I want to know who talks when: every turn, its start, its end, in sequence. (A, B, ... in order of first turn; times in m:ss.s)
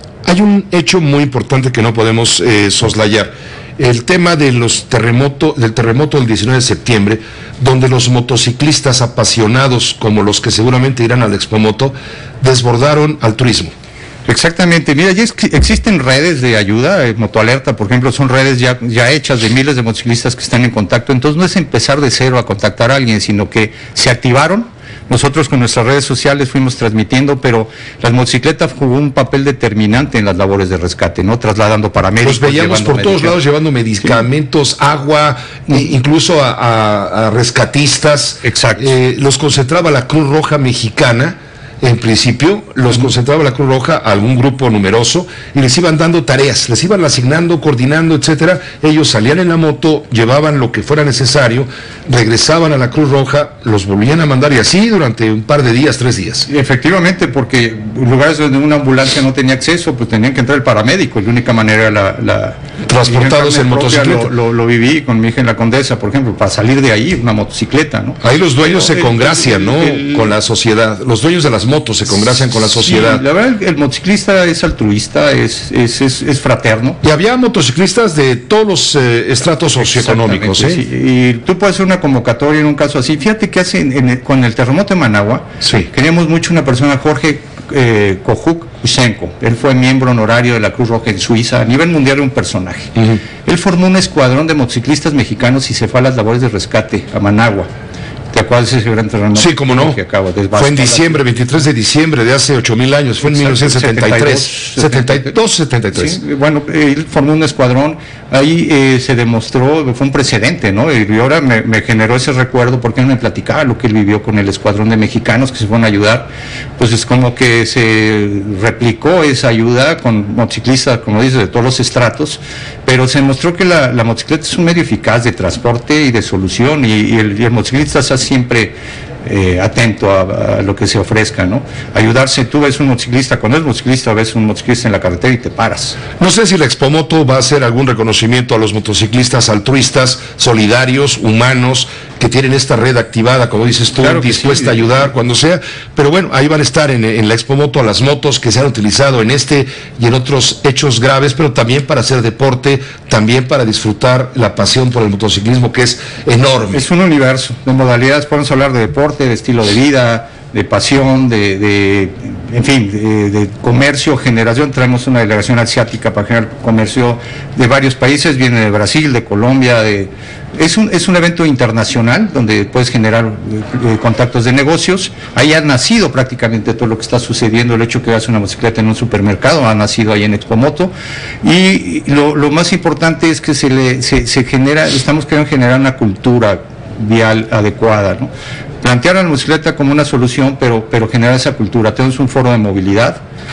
0:00.2-0:13.7 A
0:14.2-0:33.4 B
0:32.2-0:56.5 A
0:38.4-0:38.9 B
0:56.5-1:10.3 B
1:02.9-1:04.3 A
1:08.2-1:13.2 A
1:12.7-1:17.0 B
1:17.0-1:20.8 A
1:19.8-1:32.9 B
1:25.6-1:25.9 A
1:33.4-1:37.7 B
1:38.3-1:41.2 B
1:39.3-1:40.0 A
1:40.6-1:46.2 A
1:43.2-1:45.3 B
1:45.9-2:16.0 B
2:16.2-2:36.8 A
2:24.0-2:25.1 B
2:36.7-3:00.9 B
3:01.4-3:08.3 B
3:08.8-3:13.2 B